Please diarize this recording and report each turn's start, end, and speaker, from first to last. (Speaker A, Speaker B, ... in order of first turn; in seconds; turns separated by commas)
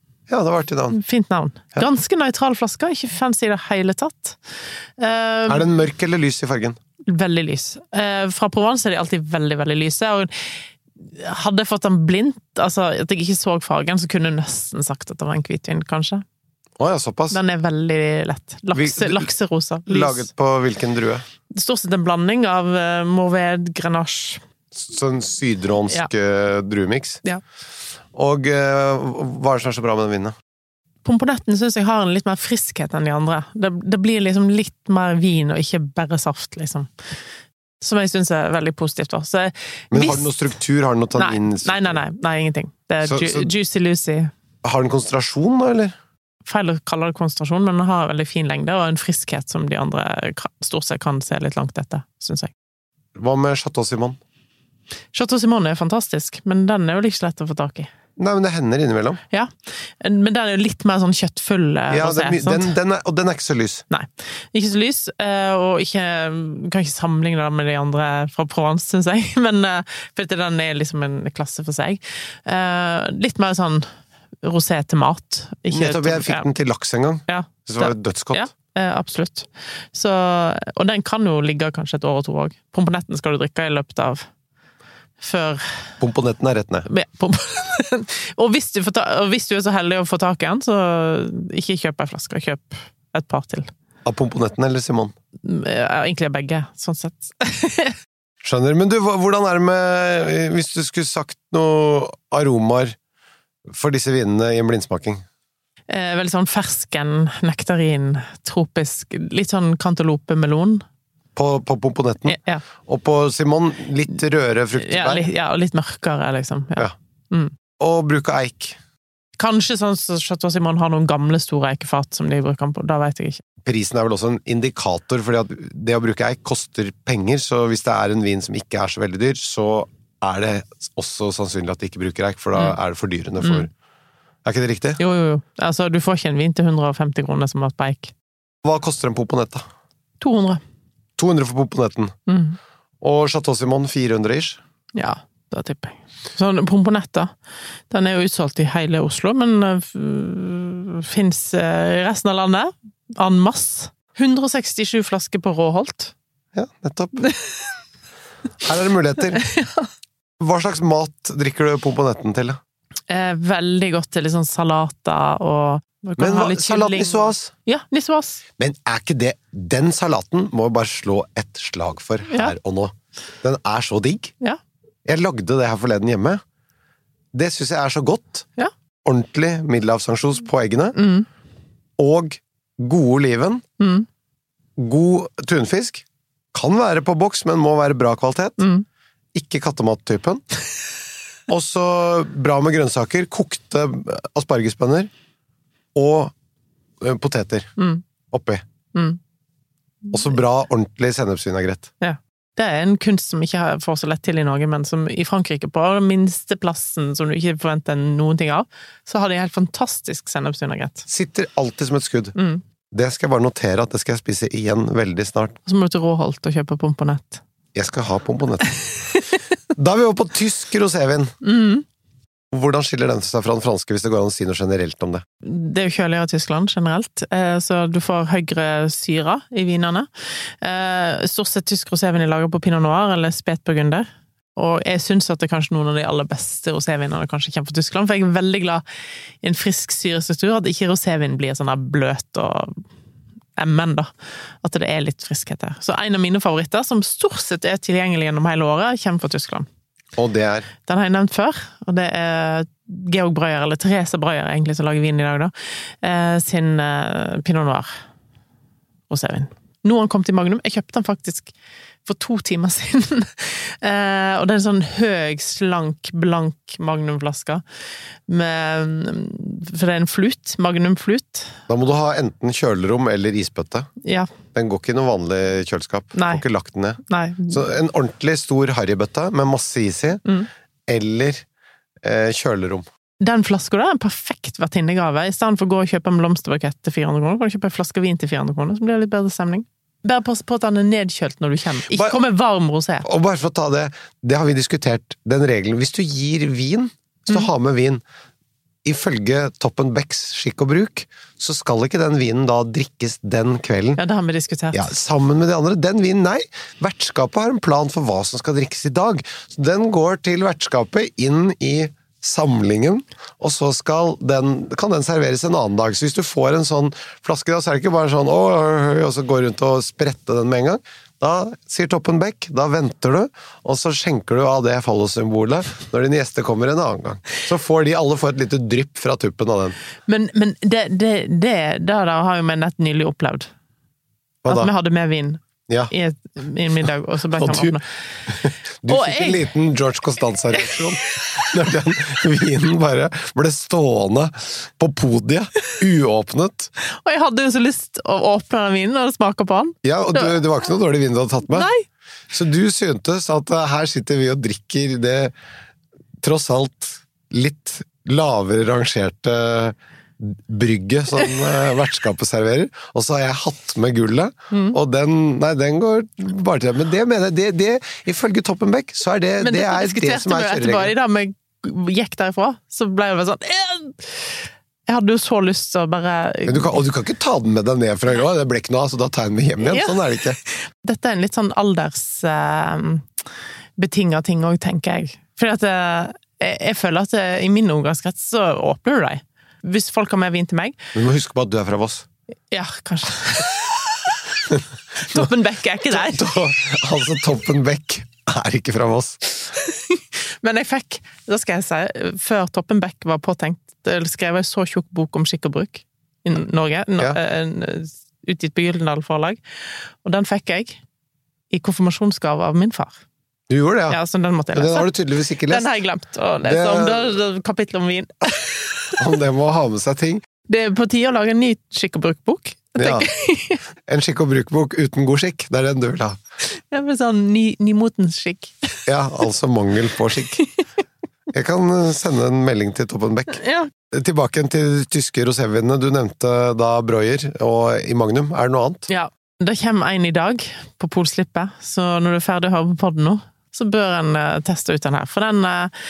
Speaker A: 0.3-1.0, Speaker B: 0.9-4.4, Speaker B: 5.0-5.7, Speaker A: 5.5-6.8, Speaker B: 7.1-10.3, Speaker B: 11.1-16.2, Speaker A: 16.8-17.4, Speaker B: 17.3-20.3, Speaker A: 18.7-19.3, Speaker A: 19.9-21.2, Speaker B: 21.5-24.4, Speaker A: 24.7-27.2, Speaker A: 28.1-30.3, Speaker B: 31.0-36.9, Speaker B: 37.8-40.3, Speaker A: 39.9-42.0, Speaker B: 41.1-44.3, Speaker A: 43.0-43.5, Speaker A: 44.6-45.9, Speaker B: 46.5-52.5, Speaker A: 53.1-54.2, Speaker B: 55.1-57.9, Speaker A: 58.2-59.2, Speaker B: 59.3-62.7, Speaker A: 61.9-63.8, Speaker B: 63.9-73.9, Speaker B: 74.4-76.5, Speaker A: 75.7-78.5, Speaker B: 77.3-84.2, Speaker B: 85.2-85.8, Speaker A: 86.0-86.9, Speaker B: 86.9-93.7, Speaker A: 94.0-95.1, Speaker B: 95.4-98.0, Speaker A: 98.4-103.0, Speaker A: 103.7-105.2, Speaker B: 105.9-110.8, Speaker A: 111.3-115.3, Speaker B: 112.2-112.6, Speaker B: 114.8-117.5, Speaker A: 117.8-118.8, Speaker B: 119.4-123.4, Speaker A: 123.6-133.7, Speaker B: 133.4-133.7, Speaker A: 134.4-135.0, Speaker B: 135.0-138.1, Speaker A: 138.6-139.6, Speaker B: 140.2-140.6, Speaker A: 141.2-142.1, Speaker B: 142.3-142.6, Speaker A: 143.0-144.6, Speaker B: 144.9-147.3, Speaker B: 147.9-156.1, Speaker A: 156.5-157.3, Speaker B: 157.2-157.5, Speaker A: 158.6-159.4, Speaker B: 159.4-159.9, Speaker A: 160.4-162.6, Speaker B: 163.1-168.4, Speaker A: 166.2-167.5, Speaker A: 168.6-174.3, Speaker B: 172.3-172.5, Speaker A: 175.0-176.4, Speaker A: 177.3-178.5, Speaker A: 179.0-181.0, Speaker B: 180.9-181.3, Speaker A: 182.0-183.6, Speaker B: 183.8-184.1, Speaker A: 184.8-188.6, Speaker B: 188.6-188.8, Speaker A: 189.3-190.4, Speaker A: 191.5-195.1, Speaker A: 195.9-196.3, Speaker A: 197.0-197.7, Speaker B: 197.8-198.0, Speaker A: 198.3-198.6, Speaker B: 198.9-199.2, Speaker A: 200.1-201.9, Speaker B: 202.0-211.1, Speaker A: 211.1-212.3, Speaker B: 212.3-212.6, Speaker A: 212.9-215.6, Speaker B: 215.7-217.4, Speaker A: 217.7-218.8, Speaker A: 219.7-221.3, Speaker B: 221.4-221.8, Speaker A: 222.5-225.2, Speaker B: 225.4-230.1, Speaker B: 230.6-238.8, Speaker B: 239.4-242.8, Speaker B: 243.6-244.1, Speaker B: 244.6-249.7, Speaker A: 250.2-250.7, Speaker B: 250.8-257.9, Speaker B: 259.1-261.5, Speaker B: 262.0-267.6, Speaker B: 268.3-271.6, Speaker A: 271.7-273.9, Speaker B: 274.0-274.3, Speaker A: 274.5-280.2, Speaker B: 276.1-276.4, Speaker B: 277.0-277.6, Speaker A: 280.9-281.4, Speaker A: 282.0-282.9, Speaker B: 283.2-293.1, Speaker A: 291.9-292.2, Speaker A: 293.0-298.0, Speaker A: 298.8-304.0, Speaker B: 304.0-304.9, Speaker A: 304.7-329.8, Speaker B: 330.1-333.5, Speaker A: 334.4-334.7, Speaker B: 334.5-337.8, Speaker A: 337.4-346.7, Speaker B: 338.9-339.5, Speaker B: 340.7-341.3, Speaker B: 346.8-350.3, Speaker A: 349.8-351.7, Speaker B: 351.5-351.8, Speaker A: 352.3-355.3, Speaker A: 356.2-370.9, Speaker B: 364.5-364.8, Speaker B: 369.4-376.8, Speaker A: 376.4-380.4, Speaker B: 379.6-380.0, Speaker B: 380.6-383.1, Speaker B: 383.8-390.8, Speaker A: 390.9-392.1, Speaker B: 392.5-394.2, Speaker A: 394.5-395.3, Speaker B: 394.9-396.3, Speaker A: 395.9-399.5, Speaker B: 399.6-409.4, Speaker B: 410.0-410.8, Speaker B: 411.5-413.0, Speaker A: 413.5-414.0, Speaker B: 413.9-414.9, Speaker A: 414.5-415.7, Speaker B: 415.5-419.0, Speaker A: 416.4-417.1, Speaker A: 419.0-420.2, Speaker B: 420.5-423.6, Speaker A: 422.8-423.1, Speaker A: 423.9-426.2, Speaker B: 426.5-428.5, Speaker A: 428.9-430.4, Speaker A: 431.3-438.9, Speaker B: 433.4-433.7, Speaker B: 438.9-445.7